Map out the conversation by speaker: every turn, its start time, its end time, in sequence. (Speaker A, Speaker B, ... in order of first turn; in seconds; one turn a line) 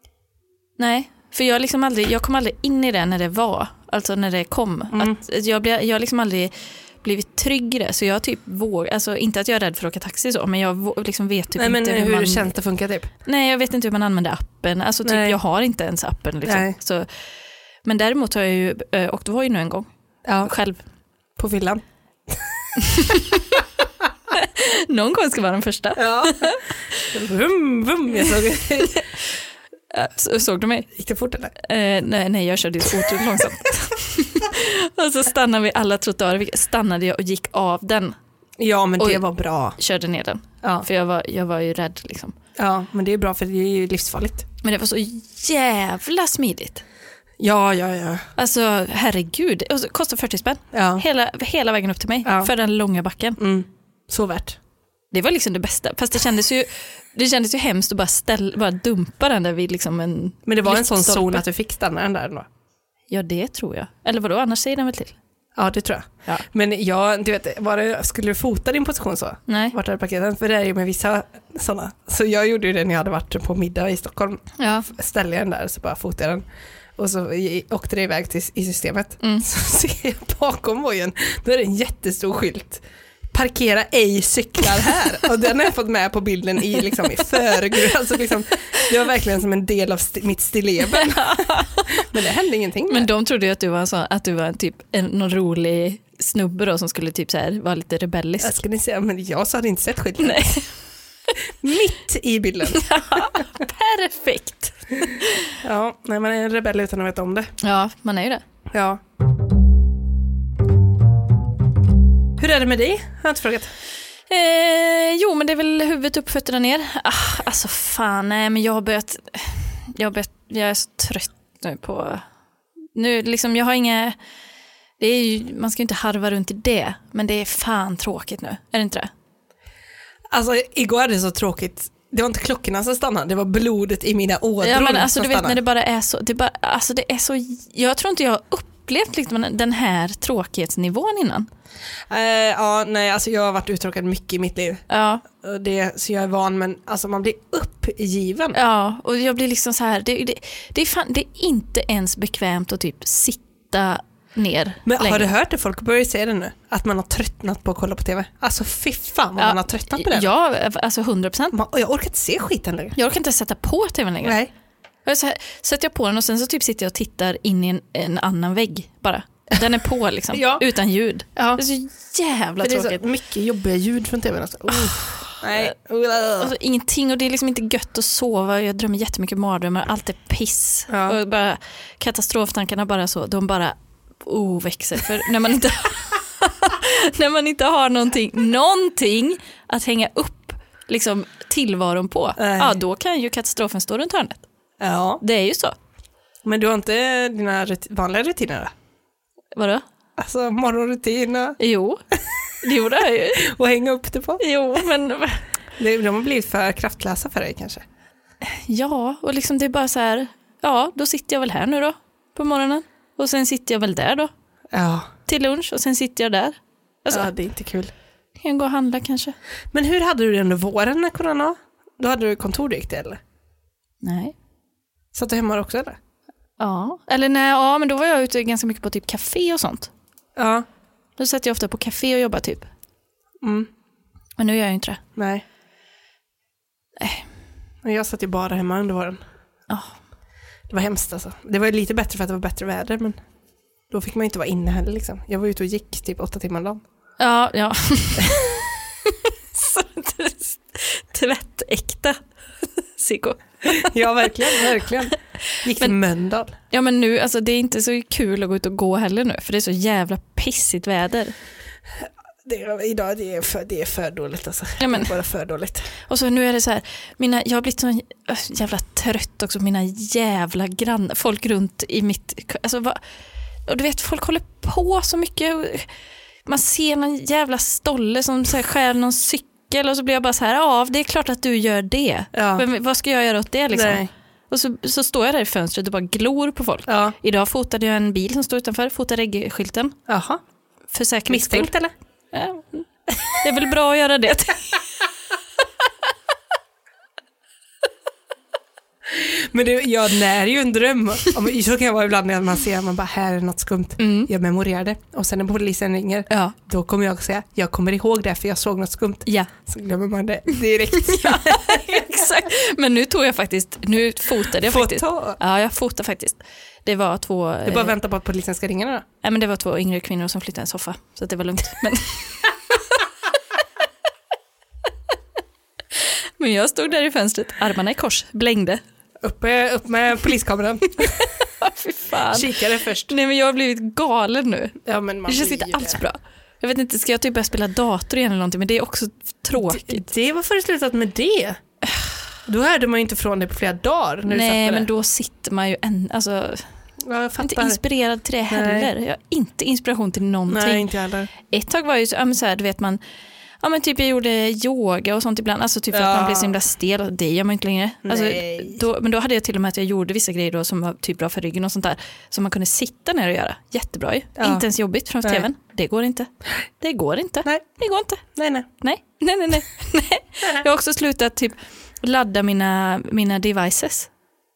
Speaker A: 0.8-12.5
Speaker B: 4.9-5.2
Speaker B: 11.6-13.1
Speaker A: 13.2-17.1
Speaker B: 15.0-15.3
Speaker B: 16.4-16.7
Speaker A: 17.8-19.9
Speaker B: 20.2-20.5
Speaker A: 20.4-20.8
Speaker B: 21.4-22.7
Speaker A: 22.8-23.6
Speaker A: 24.3-27.1
Speaker B: 25.9-29.0
Speaker A: 28.3-29.4
Speaker A: 29.9-30.9
Speaker B: 30.9-31.5
Speaker A: 31.6-38.1
Speaker B: 38.6-39.8
Speaker A: 39.8-42.4
Speaker B: 42.5-44.5
Speaker A: 44.6-46.8
Speaker B: 47.4-48.3
Speaker A: 48.4-53.4
Speaker B: 50.7-51.0
Speaker B: 52.2-52.5
Speaker B: 53.4-54.6
Speaker A: 55.1-61.4
Speaker B: 60.5-62.5
Speaker A: 63.1-65.2
Speaker B: 65.5-76.4
Speaker A: 69.5-69.7
Speaker A: 74.6-74.9
Speaker B: 77.0-93.1
Speaker A: 90.9-92.0
Speaker A: 92.9-98.6
Speaker B: 98.4-100.6
Speaker A: 100.2-100.7
Speaker B: 101.6-103.4
Speaker A: 102.7-105.5
Speaker B: 105.6-107.5
Speaker A: 107.6-108.4
Speaker B: 108.7-109.0
Speaker B: 112.4-113.7
Speaker A: 114.3-122.2
Speaker A: 122.9-124.2
Speaker A: 125.0-129.1
Speaker B: 130.3-135.6
Speaker A: 134.6-141.5
Speaker B: 142.1-148.6
Speaker A: 144.9-145.2
Speaker A: 148.5-155.3
Speaker B: 154.8-160.3
Speaker A: 159.4-161.6
Speaker B: 161.5-162.9
Speaker A: 162.9-164.4
Speaker B: 164.2-164.5
Speaker A: 165.0-173.0
Speaker B: 170.3-170.6
Speaker B: 171.3-171.6
Speaker B: 172.6-176.5
Speaker A: 174.7-175.7
Speaker A: 176.4-194.4
Speaker B: 180.9-181.2
Speaker B: 192.4-192.8
Speaker B: 194.8-195.2
Speaker A: 195.2-195.7
Speaker B: 196.4-198.7
Speaker A: 199.6-199.8
Speaker B: 200.2-201.6
Speaker A: 201.6-202.0
Speaker A: 202.6-203.4
Speaker B: 203.3-204.4
Speaker A: 204.4-205.4
Speaker B: 205.8-207.8
Speaker A: 208.4-214.3
Speaker B: 214.7-215.1
Speaker A: 215.3-217.3
Speaker B: 217.1-217.9
Speaker A: 218.4-219.3
Speaker B: 219.7-223.2
Speaker A: 224.0-224.3
Speaker B: 225.1-226.0
Speaker A: 226.6-229.9
Speaker B: 230.3-230.7
Speaker A: 231.2-232.7
Speaker B: 233.4-233.7
Speaker A: 234.4-235.0
Speaker B: 235.2-235.4
Speaker A: 237.0-237.2
Speaker B: 237.8-239.2
Speaker A: 239.7-239.9
Speaker B: 240.7-243.2
Speaker B: 243.9-246.8
Speaker A: 247.2-254.6
Speaker B: 253.7-256.5
Speaker A: 255.5-255.9
Speaker A: 256.7-261.3
Speaker B: 262.0-265.9
Speaker A: 264.8-265.1
Speaker A: 266.1-273.0
Speaker A: 273.7-275.9
Speaker A: 276.4-290.0
Speaker B: 282.3-282.6
Speaker B: 283.7-284.1
Speaker B: 286.9-287.1
Speaker B: 290.1-290.4
Speaker A: 290.9-291.7
Speaker B: 291.3-291.9
Speaker A: 292.3-294.8
Speaker B: 299.1-312.4
Speaker A: 304.0-304.3
Speaker A: 306.3-306.6
Speaker A: 310.9-317.9
Speaker B: 314.6-315.4
Speaker B: 317.6-319.1
Speaker A: 319.2-322.5
Speaker A: 326.0-328.8
Speaker B: 329.2-331.3
Speaker A: 331.2-340.1
Speaker B: 332.3-333.1
Speaker B: 334.8-336.0
Speaker B: 339.6-341.6
Speaker B: 342.4-344.9
Speaker A: 344.3-346.7
Speaker B: 347.0-347.8
Speaker A: 347.4-350.9
Speaker B: 348.5-348.9
Speaker B: 350.5-351.3
Speaker A: 351.5-353.0
Speaker A: 353.6-368.2
Speaker B: 355.9-356.6
Speaker B: 358.1-358.8
Speaker B: 364.4-364.6
Speaker B: 368.3-368.7
Speaker A: 368.8-374.1